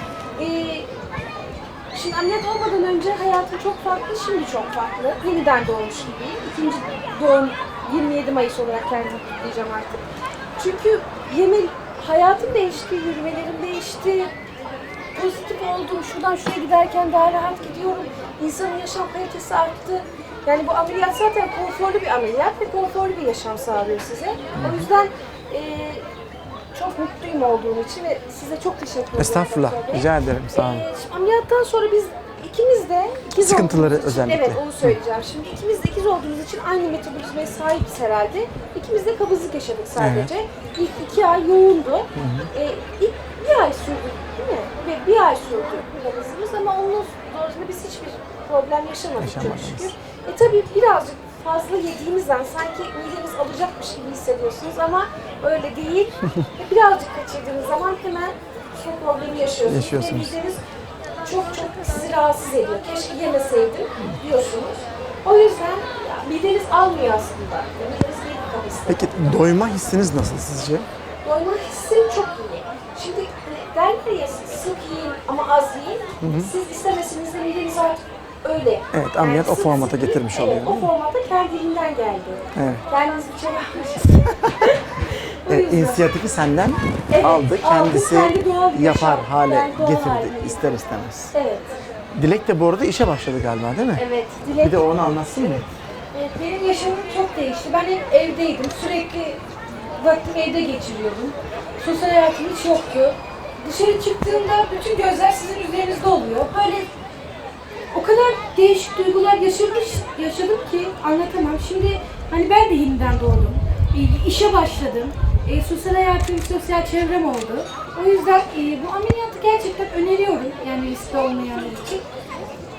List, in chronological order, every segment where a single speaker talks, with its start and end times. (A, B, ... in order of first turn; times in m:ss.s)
0:00.4-0:00.9 A
0:01.9-0:10.0 A
0:10.6-0:14.3 A
0:15.2-0:26.1 A
0:24.6-0:24.9 B
0:26.7-1:00.6 A
0:29.2-0:30.9 B
0:33.4-0:35.0 B
0:40.0-0:40.3 B
0:42.2-0:42.5 B
0:49.2-0:49.9 B
0:59.7-1:00.4 B
1:01.2-1:09.2 A
1:08.9-1:10.9 B
1:11.2-1:26.0 A
1:16.2-1:16.5 B
1:18.9-1:20.9 B
1:22.6-1:22.8 B
1:25.5-1:31.3 B
1:27.1-1:30.8 A
1:31.3-1:31.7 A
1:32.1-1:34.0 B
1:34.0-1:39.4 A
1:34.6-1:35.6 B
1:40.0-1:46.9 A
1:47.9-2:02.0 A